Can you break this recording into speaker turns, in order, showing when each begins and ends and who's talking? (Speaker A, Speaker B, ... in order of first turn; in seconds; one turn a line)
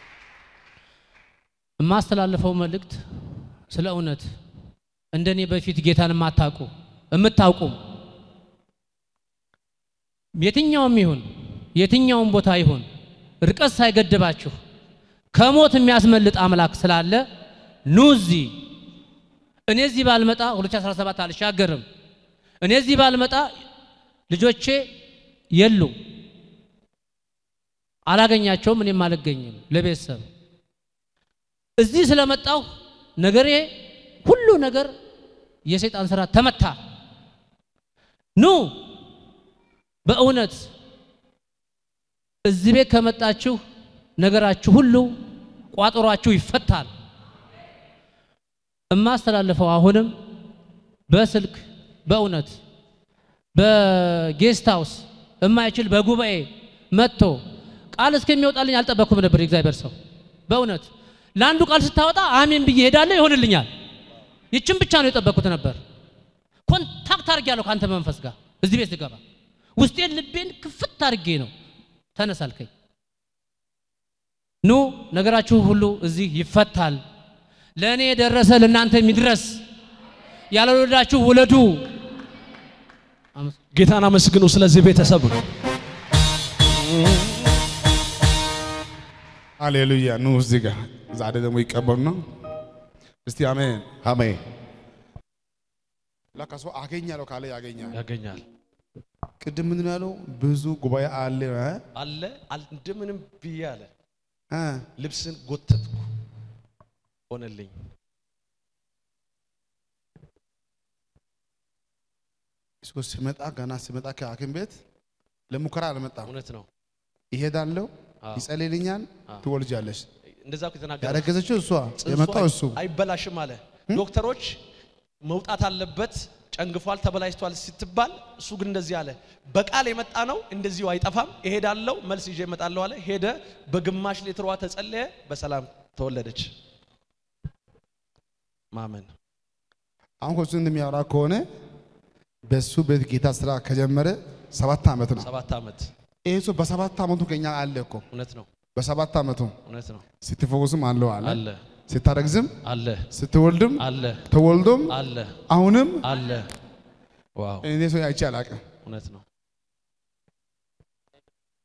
Speaker A: 1.8-4.2
Speaker A: 5.1-7.8
Speaker A: 10.4-12.8
Speaker A: 13.4-14.6
Speaker A: 15.3-17.2
Speaker A: 17.9-18.6
Speaker A: 19.7-21.8
Speaker A: 22.6-23.5
Speaker A: 24.3-24.9
Speaker A: 25.5-25.9
Speaker A: 28.1-30.2
Speaker A: 31.8-32.6
Speaker A: 33.2-33.7
Speaker A: 34.2-34.9
Speaker A: 35.6-36.8
Speaker A: 38.4-38.8
Speaker A: 40.0-40.7
Speaker A: 42.4-43.6
Speaker A: 44.2-45.1
Speaker A: 45.7-46.9
Speaker A: 48.9-50.1
Speaker A: 51.1-52.6
Speaker A: 53.5-57.4
Speaker A: 57.9-59.9
Speaker A: 60.5-63.7
Speaker A: 64.5-65.8
Speaker A: 66.7-69.2
Speaker A: 69.8-71.5
Speaker A: 72.2-72.7
Speaker A: 74.6-77.0
Speaker A: 77.8-79.6
Speaker A: 80.5-81.9
Speaker B: 83.7-85.4
Speaker C: 89.6-92.2
Speaker C: 93.2-94.4
Speaker C: 96.3-98.0
Speaker B: 97.9-98.4
Speaker C: 99.4-101.8
Speaker B: 102.0-103.9
Speaker C: 104.5-104.8
Speaker B: 105.0-106.1
Speaker B: 107.3-107.7
Speaker C: 112.8-114.8
Speaker C: 115.5-116.3
Speaker B: 116.2-116.7
Speaker C: 117.3-120.1
Speaker B: 120.4-121.3
Speaker C: 121.0-122.8
Speaker B: 122.0-124.5
Speaker B: 125.2-136.5
Speaker B: 138.7-139.1
Speaker C: 140.2-141.4
Speaker C: 142.5-145.3
Speaker B: 145.2-145.9
Speaker C: 146.2-148.0
Speaker B: 148.1-148.5
Speaker C: 148.7-149.6
Speaker B: 149.7-150.0
Speaker C: 150.2-152.5
Speaker B: 151.2-151.6
Speaker B: 152.6-153.1
Speaker C: 153.1-154.9
Speaker B: 153.8-154.2
Speaker B: 154.9-155.3
Speaker C: 155.5-156.0
Speaker B: 156.0-156.5
Speaker B: 157.4-157.7
Speaker C: 157.6-158.6
Speaker B: 158.8-159.2